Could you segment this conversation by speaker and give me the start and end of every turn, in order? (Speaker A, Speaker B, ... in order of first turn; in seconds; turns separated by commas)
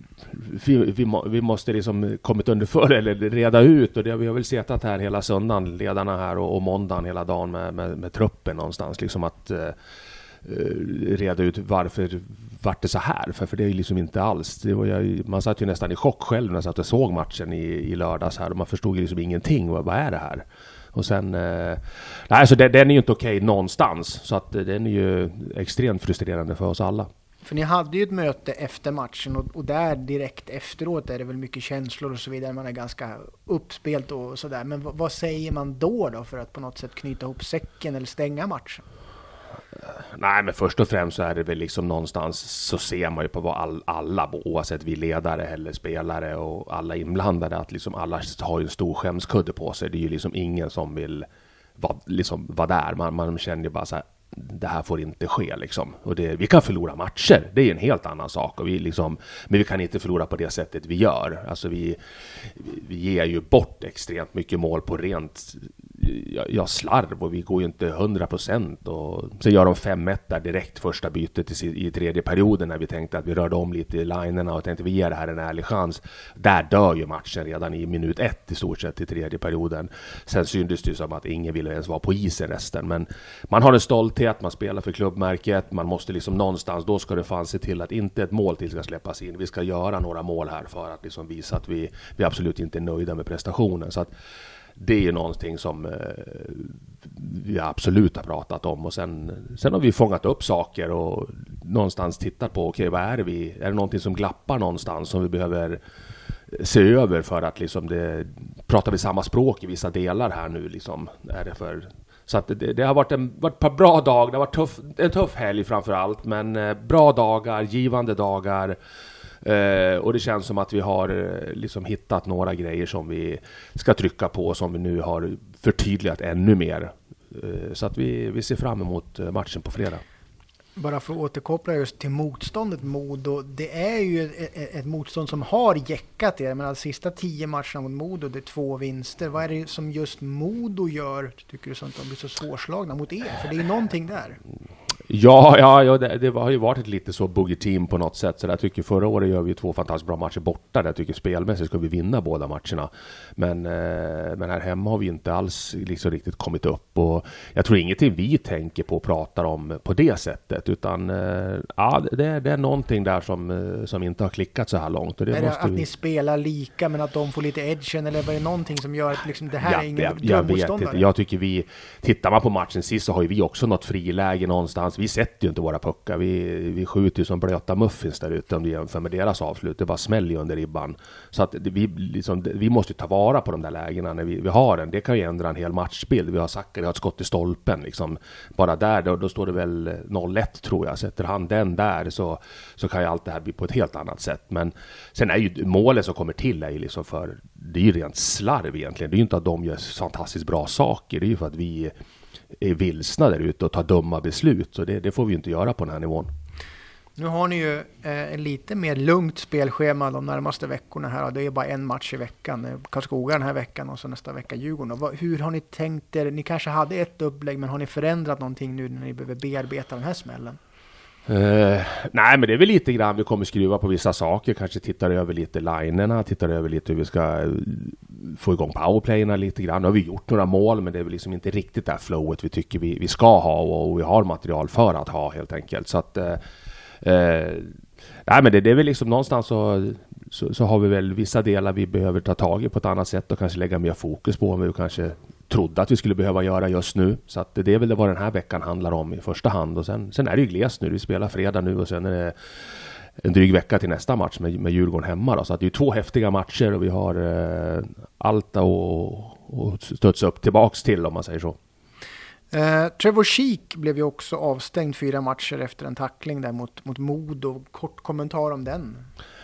Speaker A: 0.3-9.7, Speaker A: 10.4-27.1, Speaker B: 27.4-38.8, Speaker A: 40.0-51.2, Speaker A: 51.8-62.0, Speaker A: 62.5-94.1, Speaker A: 94.8-105.8, Speaker A: 106.5-118.8, Speaker A: 119.4-130.0, Speaker B: 130.8-144.4, Speaker A: 145.1-165.8, Speaker B: 165.3-171.0, Speaker A: 169.6-201.9, Speaker A: 202.6-206.3, Speaker B: 207.2-220.6, Speaker A: 221.3-236.4, Speaker A: 237.0-237.7, Speaker A: 238.2-252.3, Speaker A: 253.2-261.6, Speaker B: 262.5-269.1